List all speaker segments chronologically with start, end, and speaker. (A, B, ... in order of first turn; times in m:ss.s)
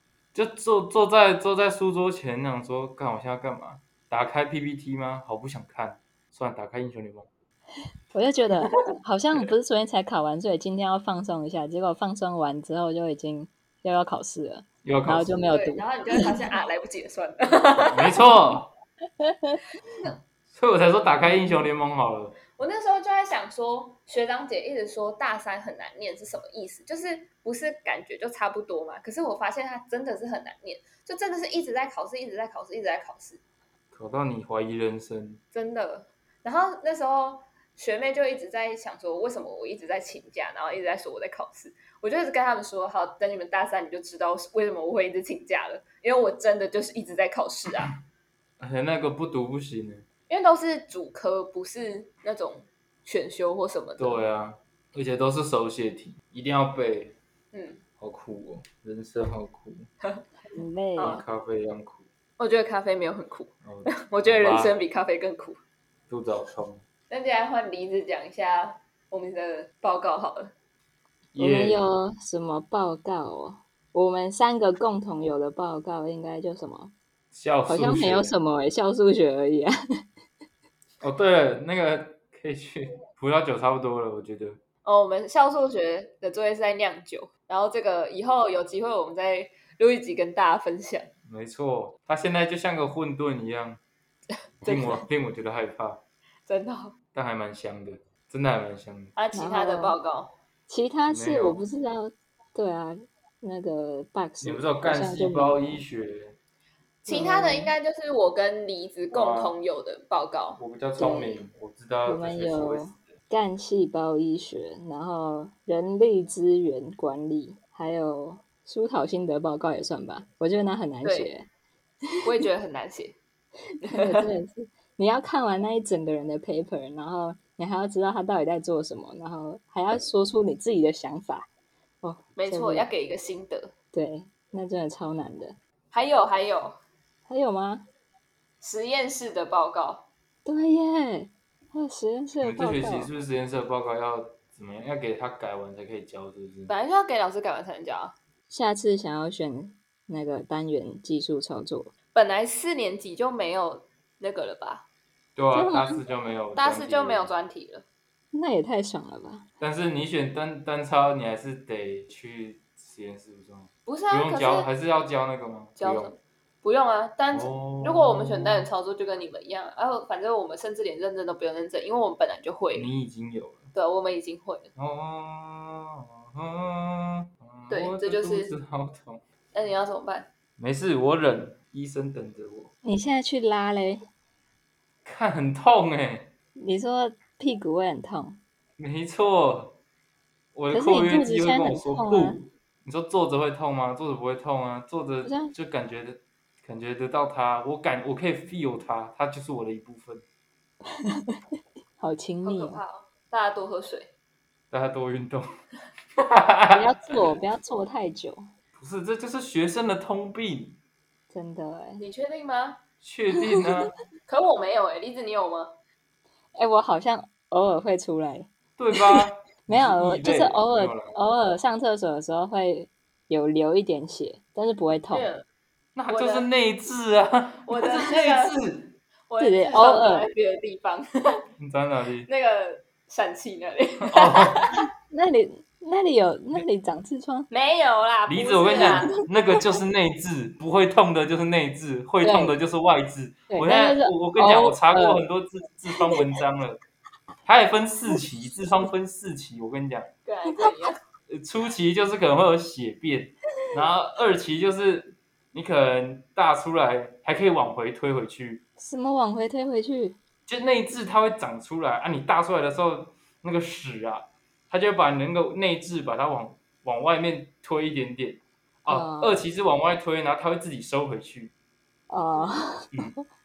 0:00.3-0:07.3 A
0:08.1-0:16.4 B
0:14.8-0:15.4 A
0:15.5-0:18.2 C
0:17.8-0:18.7 A
0:19.2-0:19.6 B
0:20.5-0:22.4 A
0:22.6-0:33.4 C
0:33.9-0:35.4 A
0:35.5-0:47.9 C
0:48.6-0:50.0 A
0:50.3-0:54.2 C
0:54.0-0:57.2 A
0:57.5-0:57.8 C
0:58.0-0:59.9 A
1:00.5-1:01.2 B
1:01.0-1:01.2 C
1:01.0-1:02.1 A
1:02.4-1:05.6 C
1:03.6-1:04.8 A
1:06.1-1:06.8 A
1:07.1-1:10.5 C
1:11.3-1:11.9 A
1:11.4-1:16.9 B
1:17.3-1:18.3 A
1:17.7-1:19.7 B
1:21.0-1:24.6 A
1:24.8-1:31.1 C
1:31.3-1:33.8 A
1:34.6-1:36.0 A
1:34.6-1:35.0 C
1:36.5-1:37.0 C
1:37.1-1:39.1 A
1:39.2-1:40.3 C
1:39.3-1:40.0 B
1:40.7-1:45.8 B
1:41.1-1:41.6 A
1:44.4-1:46.4 A
1:47.0-1:50.6 C
1:47.1-1:47.7 A
1:49.1-1:49.6 A
1:50.6-1:53.0 A
1:51.0-1:51.4 B
1:52.1-2:01.5 B
2:01.0-2:01.3 C
2:02.2-2:03.2 C
2:03.8-2:11.5 B
2:03.9-2:04.3 C
2:12.0-2:12.9 B
2:12.4-2:13.7 C
2:13.9-2:15.6 B
2:15.9-2:16.8 C
2:17.3-2:17.9 B
2:18.6-2:20.1 C
2:20.4-2:23.1 B
2:22.4-2:26.7 A
2:26.7-2:28.2 C
2:28.5-2:31.9 B
2:32.2-2:34.9 C
2:35.4-2:37.3 A
2:35.5-2:36.0 B
2:36.6-2:37.8 C
2:38.3-2:39.4 B
2:39.6-2:46.1 A
2:43.9-2:44.7 C
2:45.8-2:52.9 C
2:47.3-2:48.7 A
2:52.7-2:53.7 A
2:53.7-2:54.7 C
2:54.8-2:59.2 A
2:57.7-2:58.5 C
2:59.5-3:00.3 C
3:00.6-3:02.7 A
3:02.8-3:04.0 B
3:05.0-3:06.3 A
3:06.6-3:08.4 B
3:08.8-3:09.8 A
3:10.6-3:20.2 A
3:10.7-3:12.4 B
3:15.2-3:15.5 B
3:20.9-3:21.4 B
3:22.0-3:22.8 B
3:22.4-3:24.1 C
3:24.7-3:25.5 A
3:26.2-3:27.2 A
3:26.7-3:28.5 B
3:28.8-3:30.8 A
3:31.3-3:32.0 B
3:32.0-3:32.8 C
3:33.0-3:33.9 A
3:34.3-3:35.7 C
3:36.6-3:45.3 B
3:38.8-3:41.2 A
3:45.1-3:45.4 C
3:46.0-3:48.9 A
3:46.1-3:46.5 C
3:47.7-3:48.6 C
3:49.3-3:51.4 C
3:49.4-3:50.3 B
3:51.6-3:52.3 A
3:52.3-3:54.8 C
3:54.0-3:54.7 A
3:54.9-3:57.5 B
3:57.5-3:59.2 C
3:58.3-4:06.8 A
3:58.8-3:59.3 B
4:02.2-4:02.6 B
4:03.5-4:05.2 B
4:05.9-4:06.2 B
4:07.4-4:10.1 A
4:10.3-4:11.0 C
4:11.3-4:18.6 A
4:18.8-4:20.2 B
4:20.5-4:31.5 A
4:28.9-4:29.4 B
4:32.1-4:32.9 B